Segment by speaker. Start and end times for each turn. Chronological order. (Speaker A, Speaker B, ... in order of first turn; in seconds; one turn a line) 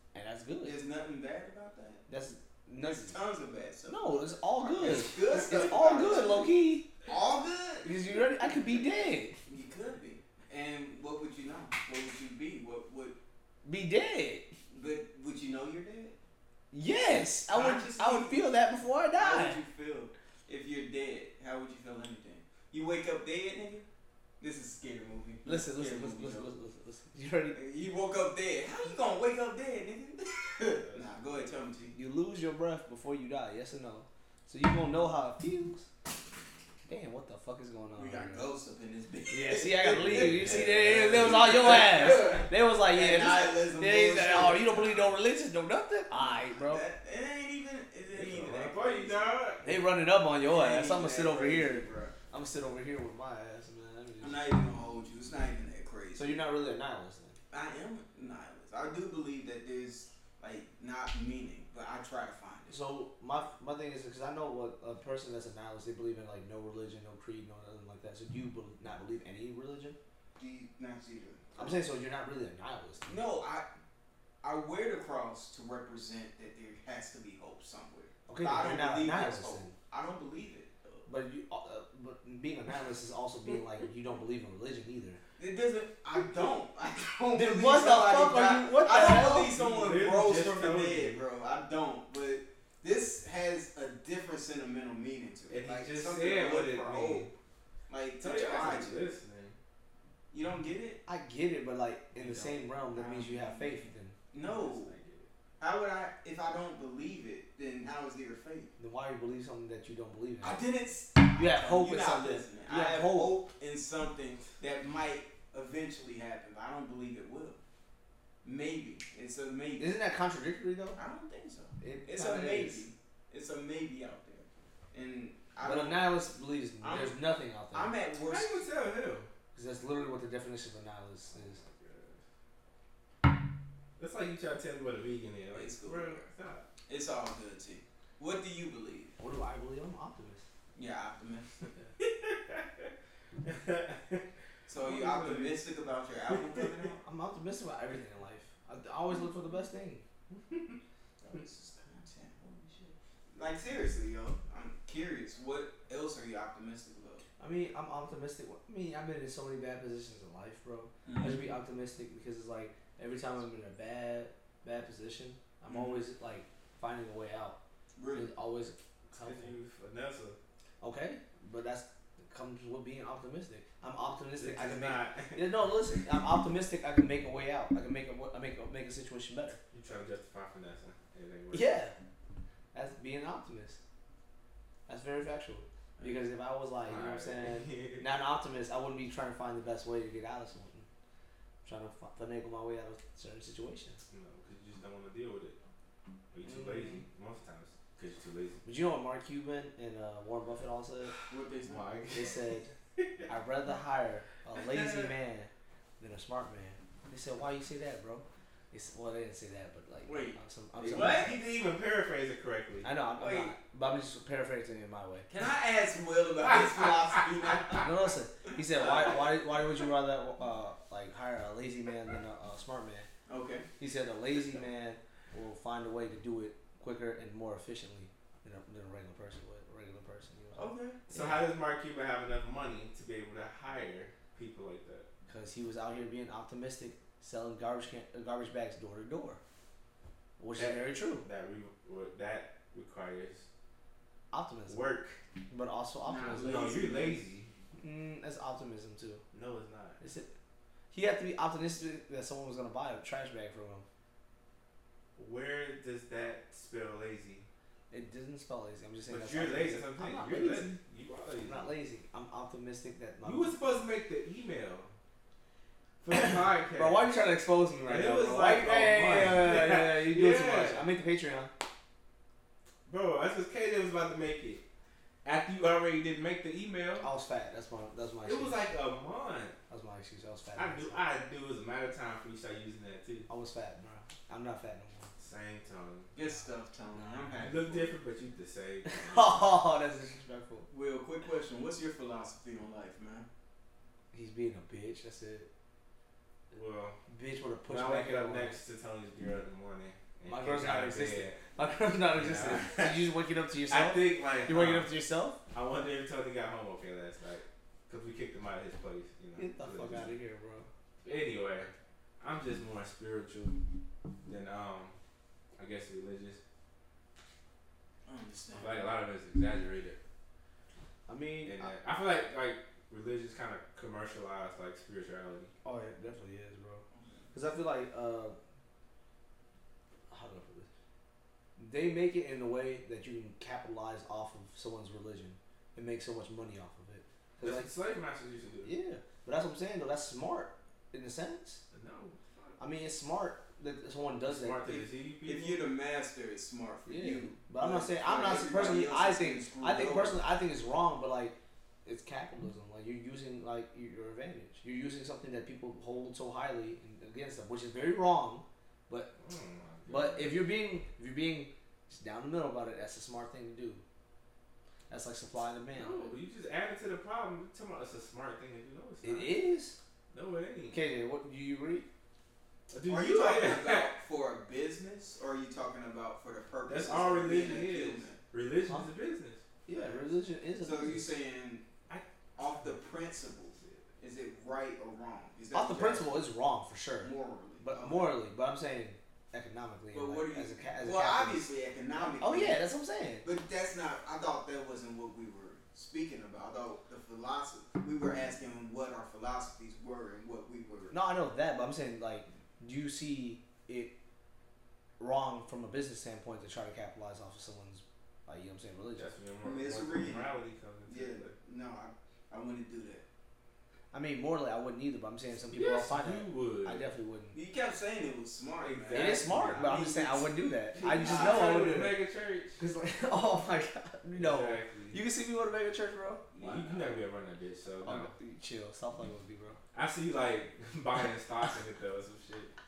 Speaker A: 0.1-0.8
Speaker B: 0.6-2.1
Speaker A: 2.1-3.2
Speaker B: 2.8-6.5
Speaker A: 3.8-6.9
Speaker B: 7.0-8.6
Speaker A: 7.8-9.4
Speaker B: 9.5-13.2
Speaker A: 13.7-14.5
Speaker B: 14.7-16.2
Speaker A: 16.7-19.6
Speaker B: 17.5-18.6
Speaker B: 19.1-23.9
Speaker B: 24.4-26.5
Speaker A: 25.4-27.6
Speaker B: 27.5-32.0
Speaker C: 30.8-31.9
Speaker A: 31.9-35.9
Speaker A: 36.9-38.5
Speaker B: 38.0-45.2
Speaker A: 39.3-46.8
Speaker C: 40.0-41.5
Speaker B: 46.1-49.4
Speaker C: 48.1-49.8
Speaker A: 49.6-54.5
Speaker B: 50.4-52.2
Speaker B: 54.2-56.4
Speaker A: 56.1-57.4
Speaker B: 57.5-62.8
Speaker A: 62.7-70.0
Speaker B: 70.4-71.8
Speaker A: 71.6-73.2
Speaker B: 73.0-73.7
Speaker B: 74.4-80.9
Speaker A: 78.3-79.8
Speaker A: 81.1-85.2
Speaker B: 85.4-97.3
Speaker A: 87.3-89.5
Speaker C: 89.3-91.2
Speaker C: 95.5-97.3
Speaker B: 97.9-99.1
Speaker C: 98.2-99.6
Speaker B: 100.3-101.0
Speaker A: 101.1-104.2
Speaker B: 102.2-105.0
Speaker C: 104.4-105.3
Speaker B: 105.6-108.7
Speaker A: 108.8-110.7
Speaker B: 110.4-117.6
Speaker A: 111.3-113.4
Speaker B: 118.4-120.0
Speaker A: 119.8-121.0
Speaker B: 121.0-126.1
Speaker A: 121.8-122.9
Speaker A: 125.6-127.9
Speaker B: 126.8-127.2
Speaker B: 127.7-128.7
Speaker C: 128.2-129.3
Speaker A: 129.5-131.6
Speaker C: 131.3-132.2
Speaker C: 134.0-136.7
Speaker B: 135.5-136.3
Speaker B: 136.9-139.2
Speaker A: 139.2-140.4
Speaker B: 140.7-141.5
Speaker C: 142.0-142.9
Speaker C: 143.4-144.2
Speaker B: 144.7-147.0
Speaker C: 144.8-145.6
Speaker C: 146.3-146.8
Speaker A: 147.0-150.0
Speaker C: 150.3-150.8
Speaker B: 151.2-157.2
Speaker A: 157.4-167.6
Speaker B: 161.1-161.5
Speaker B: 165.7-166.0
Speaker B: 168.0-168.3
Speaker A: 168.1-169.6
Speaker C: 169.2-170.4
Speaker A: 170.8-179.6
Speaker C: 174.4-175.7
Speaker C: 179.7-181.8
Speaker A: 181.5-182.0
Speaker A: 182.7-183.8
Speaker A: 184.9-190.9
Speaker B: 186.0-186.2
Speaker C: 186.8-188.1
Speaker A: 191.6-194.0
Speaker C: 194.1-195.6
Speaker C: 196.3-198.6
Speaker A: 196.4-197.0
Speaker A: 198.6-201.2
Speaker B: 201.3-202.1
Speaker C: 201.6-203.3
Speaker A: 202.1-202.7
Speaker A: 203.3-211.4
Speaker C: 204.6-205.1
Speaker B: 210.0-211.3
Speaker C: 210.8-212.9
Speaker A: 212.8-215.3
Speaker B: 213.2-213.5
Speaker B: 215.3-219.5
Speaker A: 217.8-223.1
Speaker B: 223.3-223.7
Speaker A: 223.8-231.4
Speaker B: 230.5-231.1
Speaker C: 231.1-235.1
Speaker A: 235.3-239.4
Speaker A: 240.4-241.2
Speaker C: 240.6-243.5
Speaker A: 244.3-244.8
Speaker C: 244.7-245.2
Speaker A: 245.5-246.5
Speaker B: 246.0-247.3
Speaker C: 246.3-247.5
Speaker A: 247.8-249.2
Speaker C: 249.3-250.0
Speaker A: 250.0-250.3
Speaker A: 250.9-253.9
Speaker C: 255.2-257.5
Speaker A: 257.9-260.8
Speaker C: 259.1-261.7
Speaker A: 261.4-263.6
Speaker C: 263.2-264.9
Speaker C: 266.0-267.1
Speaker A: 266.1-271.5
Speaker C: 267.8-270.9
Speaker C: 272.9-274.6
Speaker C: 275.2-277.1
Speaker A: 277.0-278.7
Speaker C: 278.2-279.6
Speaker A: 279.7-281.0
Speaker C: 280.6-283.3
Speaker A: 283.3-285.1
Speaker C: 285.2-286.1
Speaker B: 286.1-288.0
Speaker A: 286.9-287.3
Speaker C: 287.4-289.7
Speaker A: 288.9-290.7
Speaker B: 290.7-293.3
Speaker A: 294.1-295.5
Speaker C: 296.5-297.0
Speaker A: 297.1-298.6
Speaker C: 297.7-301.4
Speaker A: 300.3-305.4
Speaker C: 302.1-303.1
Speaker C: 303.7-304.9
Speaker C: 305.5-310.1
Speaker A: 309.4-310.7
Speaker C: 311.0-313.6
Speaker C: 314.3-314.9
Speaker C: 315.6-316.4
Speaker B: 318.1-318.9
Speaker C: 318.5-320.0
Speaker A: 321.1-321.7
Speaker C: 321.4-325.5
Speaker A: 325.6-328.4
Speaker B: 326.9-327.2
Speaker A: 330.1-330.7
Speaker A: 331.6-337.7
Speaker C: 337.4-338.7
Speaker A: 338.6-341.6
Speaker C: 341.7-342.7
Speaker A: 342.6-344.8
Speaker C: 344.2-345.7
Speaker B: 345.2-350.3
Speaker A: 346.9-359.1
Speaker C: 359.1-360.5
Speaker A: 359.9-363.8
Speaker A: 364.9-366.1
Speaker C: 365.7-369.4
Speaker A: 369.0-369.8
Speaker C: 370.1-370.8
Speaker A: 370.7-371.9
Speaker C: 372.7-373.9
Speaker B: 372.9-378.2
Speaker C: 376.7-379.5
Speaker A: 379.7-381.1
Speaker B: 379.7-381.6
Speaker C: 381.9-383.9
Speaker B: 382.4-386.3
Speaker A: 385.5-393.2
Speaker B: 387.0-388.2
Speaker B: 389.9-392.7
Speaker B: 393.2-400.9
Speaker A: 400.9-403.9
Speaker A: 405.0-409.1
Speaker C: 409.0-411.4
Speaker B: 409.4-410.3
Speaker B: 410.9-413.0
Speaker A: 413.9-417.4
Speaker C: 415.4-416.9
Speaker B: 417.3-421.7
Speaker C: 418.6-419.8
Speaker A: 418.9-422.0
Speaker C: 420.7-422.6
Speaker A: 422.6-426.2
Speaker C: 424.1-425.0
Speaker B: 426.3-427.0
Speaker C: 426.4-428.1
Speaker A: 427.8-429.6
Speaker C: 429.7-432.5